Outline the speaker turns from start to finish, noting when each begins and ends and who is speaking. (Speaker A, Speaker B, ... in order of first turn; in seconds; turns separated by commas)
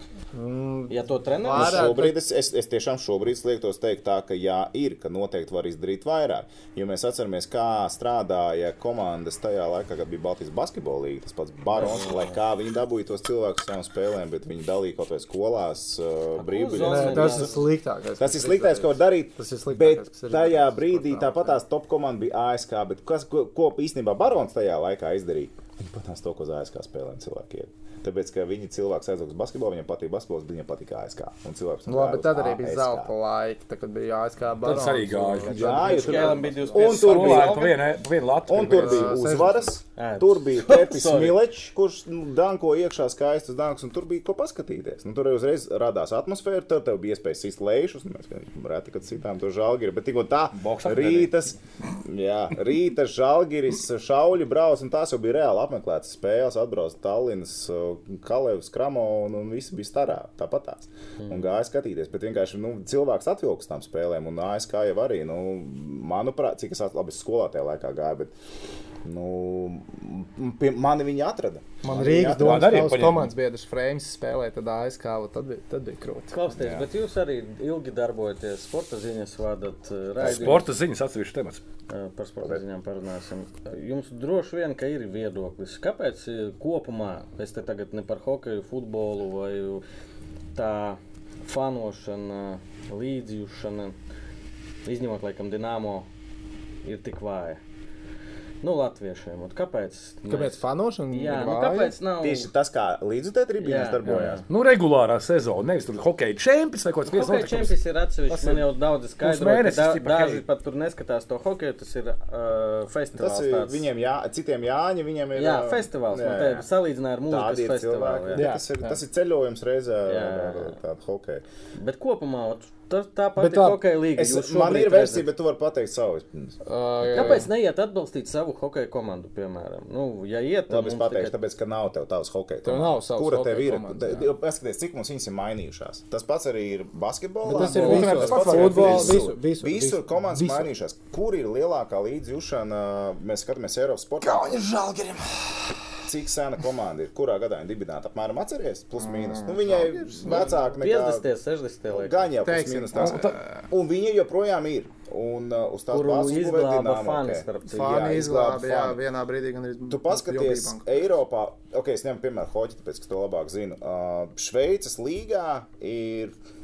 Speaker A: 0.3-2.2, Speaker B: 0.9-2.0, Speaker C: 1.5-17.7, Speaker B: 11.8-12.3, Speaker B: 16.4-17.7, Speaker A: 16.8-21.6, Speaker C: 18.2-33.1, Speaker A: 31.9-36.8, Speaker D: 34.6-35.9, Speaker C: 35.5-37.7, Speaker B: 35.7-37.8, Speaker D: 36.8-39.5, Speaker C: 38.5-68.3, Speaker A: 38.7-39.7, Speaker B: 40.0-41.4, Speaker D: 50.5-51.3, Speaker C: 69.0-72.9, Speaker A: 71.8-76.3, Speaker D: 72.1-73.3, Speaker B: 76.3-80.7, Speaker C: 76.6-76.9, Speaker C: 80.2-80.6, Speaker D: 80.2-81.6, Speaker B: 81.9-89.8, Speaker B: 90.5-94.0, Speaker B: 94.8-96.1, Speaker B: 96.8-97.6, Speaker B: 98.6-102.5, Speaker A: 100.3-102.0, Speaker C: 102.2-104.4, Speaker B: 103.6-104.5, Speaker D: 104.5-107.8, Speaker B: 107.0-113.8, Speaker D: 108.3-108.7, Speaker D: 109.2-110.4, Speaker C: 113.2-116.7, Speaker B: 115.3-118.5, Speaker C: 117.3-121.4, Speaker A: 118.3-119.0, Speaker B: 120.1-120.8, Speaker B: 121.8-125.3, Speaker A: 123.4-123.8, Speaker C: 124.2-126.6, Speaker A: 126.6-127.5, Speaker B: 127.1-131.4, Speaker C: 130.7-144.7, Speaker A: 132.6-134.3, Speaker A: 137.4-140.7, Speaker D: 137.6-139.3, Speaker B: 137.6-138.4, Speaker D: 144.3-145.3, Speaker C: 146.1-151.3, Speaker A: 149.0-150.5, Speaker B: 150.2-152.3, Speaker C: 151.9-159.0, Speaker A: 152.4-153.6, Speaker D: 152.9-153.4, Speaker B: 155.9-158.1, Speaker A: 157.7-160.9, Speaker C: 159.9-166.3